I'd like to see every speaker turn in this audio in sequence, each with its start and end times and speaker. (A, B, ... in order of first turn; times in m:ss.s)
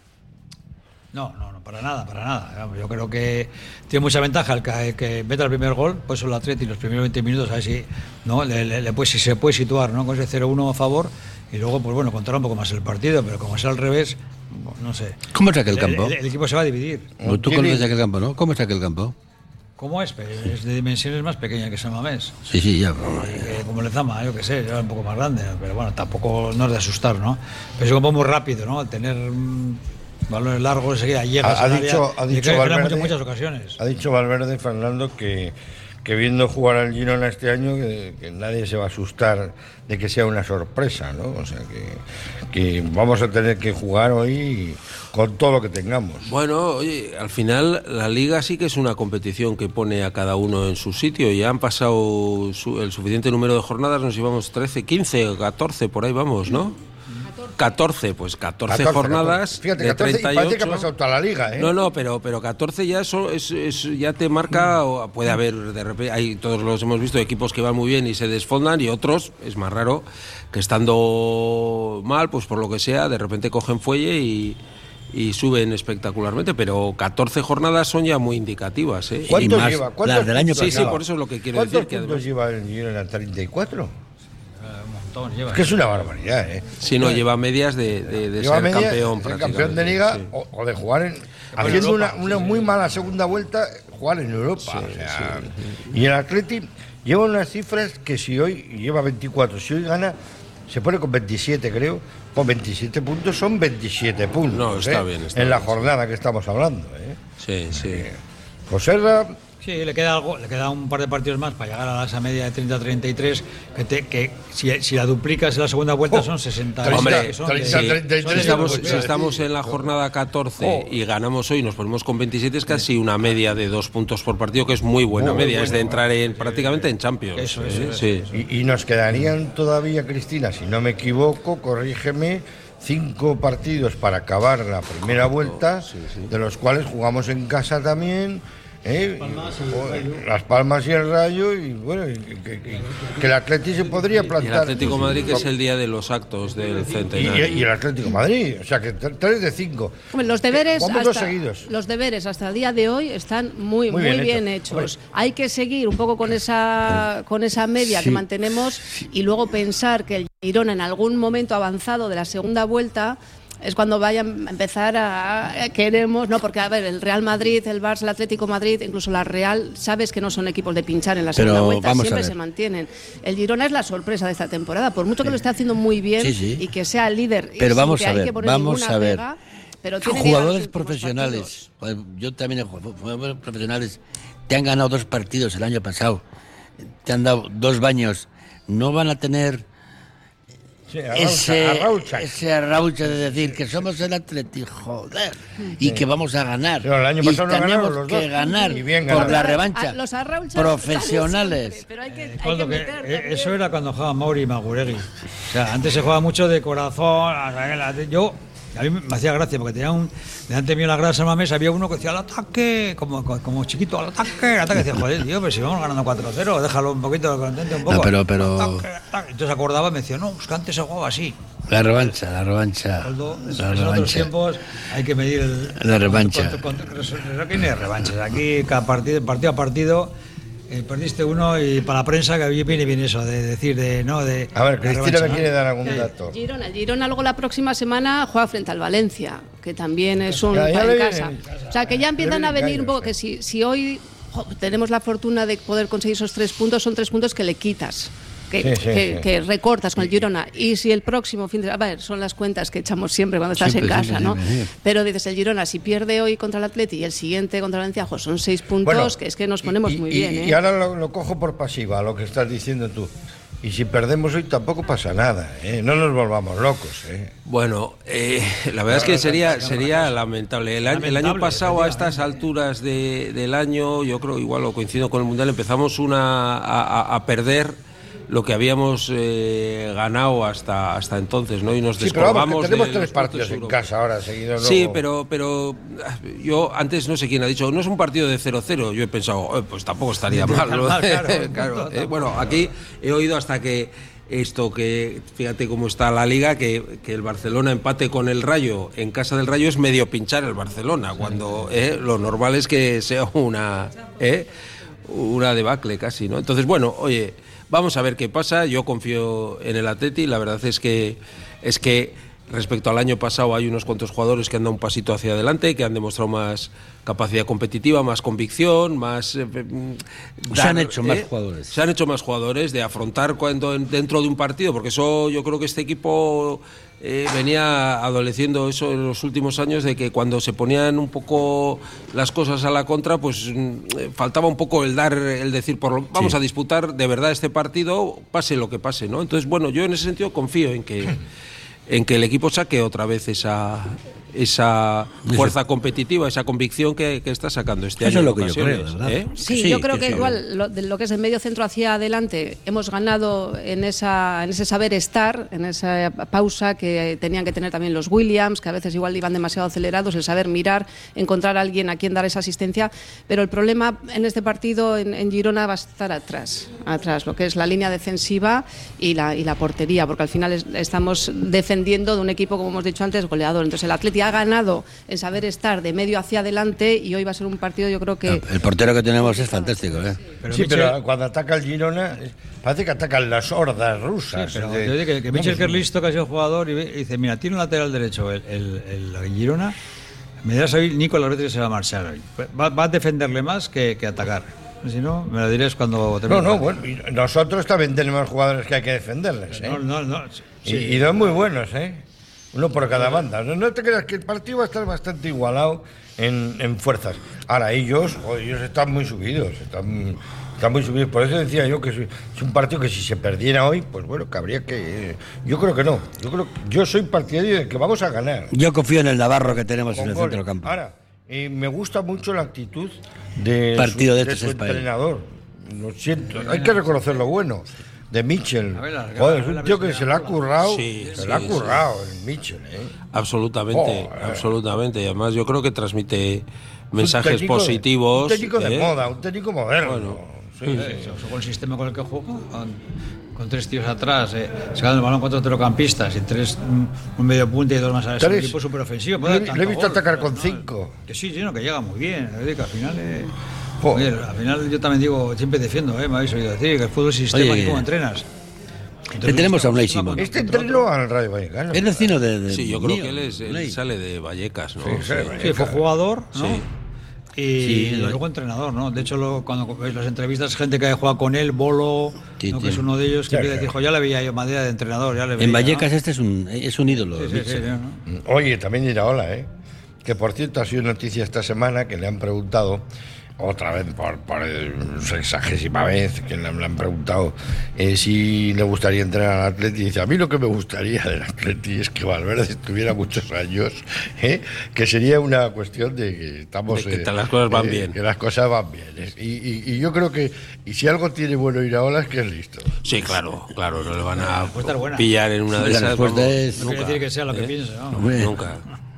0:01.1-0:17.1 A
0:15.3-0:16.2 B
0:17.2-0:17.9 C
0:17.2-0:19.1 B
0:19.8-0:22.4 A
0:22.4-0:23.6 B
0:23.0-0:33.8 A
0:31.4-0:33.2 C
0:33.8-0:46.3 C
0:46.2-0:56.8 D
0:57.5-1:00.9 D
0:58.7-1:01.7 C
1:01.6-1:14.6 D
1:15.1-1:19.4 D
1:19.3-1:21.0 B
1:19.3-1:23.9 C
1:20.5-1:22.2 D
1:24.6-1:25.8 A
1:25.5-1:27.2 C
1:26.8-1:30.3 D
1:28.3-1:40.2 C
1:31.5-1:32.8 A
1:34.6-1:35.8 D
1:40.7-1:47.2 C
1:44.5-1:45.8 D
1:47.4-1:48.1 D
1:47.7-1:48.2 C
1:48.7-1:49.4 C
1:49.6-1:59.1 A
1:56.1-1:59.9 C
1:56.9-2:08.2 D
2:00.6-2:00.9 C
2:05.1-2:06.0 C
2:07.4-2:08.4 A
2:08.3-2:25.5 C
2:15.0-2:16.3 D
2:24.4-2:27.7 D
2:27.1-2:31.7 C
2:30.1-3:01.6 E
2:33.9-2:34.9 C
2:51.3-2:52.3 B
2:56.2-2:56.6 B
2:57.6-2:59.2 B
3:00.0-3:06.2 B
3:07.0-3:09.6 B
3:10.9-3:12.4 C
3:11.1-3:20.0 B
3:13.1-3:13.8 C
3:15.8-3:16.1 C
3:16.8-3:19.5 C
3:18.4-3:23.6 E
3:20.5-3:21.8 B
3:22.2-3:41.4 A
3:37.8-3:38.8 B
3:41.7-3:44.3 B
3:43.0-3:50.1 A
3:45.7-3:46.6 B
3:50.7-3:56.0 A
3:54.5-3:56.3 C
3:55.8-4:20.6 E
4:00.5-4:03.1 C
4:08.6-4:09.2 C
4:13.6-4:14.7 B
4:18.8-4:27.3 C
4:27.4-4:37.8 D
4:28.9-4:29.9 C
4:29.3-4:30.1 A
4:30.8-4:32.4 A
4:38.3-4:43.9 D
4:42.0-4:45.0 C
4:44.6-5:04.5 D
4:50.3-4:52.7 A
5:05.1-5:41.2 D
5:20.5-5:21.7 B
5:41.9-5:49.4 D
5:45.2-5:45.5 B
5:48.0-5:50.4 B
5:49.4-6:18.4 E
6:18.2-6:20.2 B
6:20.4-6:21.0 A
6:20.5-6:25.8 C
6:24.3-6:29.7 A
6:30.4-6:36.7 A
6:36.3-6:39.8 C
6:39.5-6:41.0 A
6:40.6-6:58.5 C
6:58.5-7:00.7 B
6:59.3-7:12.9 C
7:03.8-7:04.8 B
7:06.3-7:06.8 A
7:08.7-7:11.7 A
7:10.6-7:11.8 D
7:13.1-7:18.9 D
7:13.7-7:14.4 C
7:17.0-7:21.2 C
7:19.8-7:20.8 D
7:20.7-7:22.8 A
7:23.3-7:33.3 A
7:28.2-7:28.6 C
7:29.2-7:30.9 C
7:33.8-7:34.1 C
7:33.9-7:38.2 A
7:37.3-7:37.9 B
7:39.1-7:40.8 A
7:39.2-7:40.3 B
7:40.2-7:42.2 C
7:41.7-7:43.8 B
7:42.5-7:45.3 D
7:44.8-7:45.8 C
7:45.4-7:46.6 A
7:46.4-7:46.6 D
7:47.4-7:55.9 A
7:47.6-7:48.2 B
7:52.4-7:52.9 B
7:53.3-7:53.7 C
7:55.4-7:57.7 B
7:56.9-7:58.0 A
7:58.1-7:59.5 C
8:00.0-8:02.8 C
8:03.4-8:22.8 C
8:16.7-8:18.0 D
8:22.8-8:27.5 D
8:24.2-8:25.1 A
8:25.5-8:26.8 B
8:26.6-8:28.1 A
8:27.9-8:28.4 B
8:28.1-8:28.6 D